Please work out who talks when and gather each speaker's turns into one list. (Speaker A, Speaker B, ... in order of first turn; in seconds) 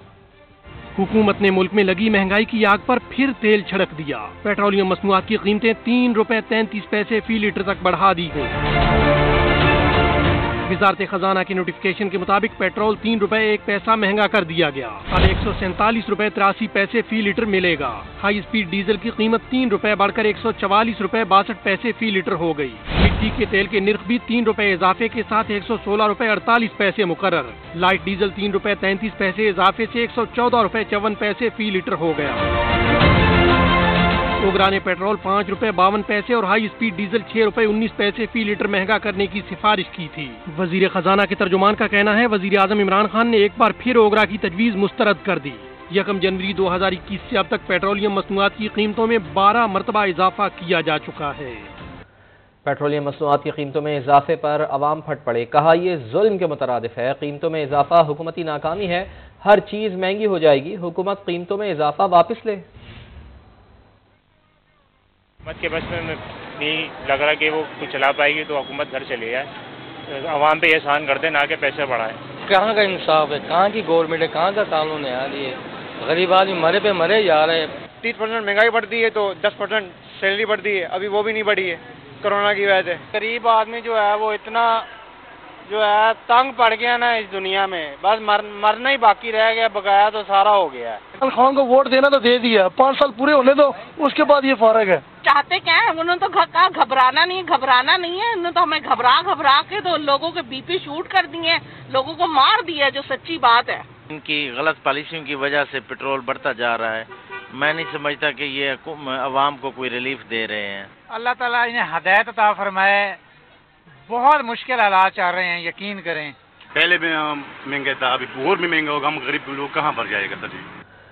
Speaker A: 1.0-8.5, 10.7-32.4, 34.4-51.7
Speaker B: 52.6-62.6
Speaker C: 65.5-69.5, 70.1-72.2
Speaker D: 72.5-72.8, 76.9-77.3, 104.1-110.9
Speaker E: 72.5-75.5, 76.0-77.6
Speaker F: 78.0-84.9, 85.7-91.0
Speaker G: 91.2-95.0
Speaker H: 95.2-103.8
Speaker I: 111.1-113.2, 114.1-116.4
Speaker J: 116.7-120.7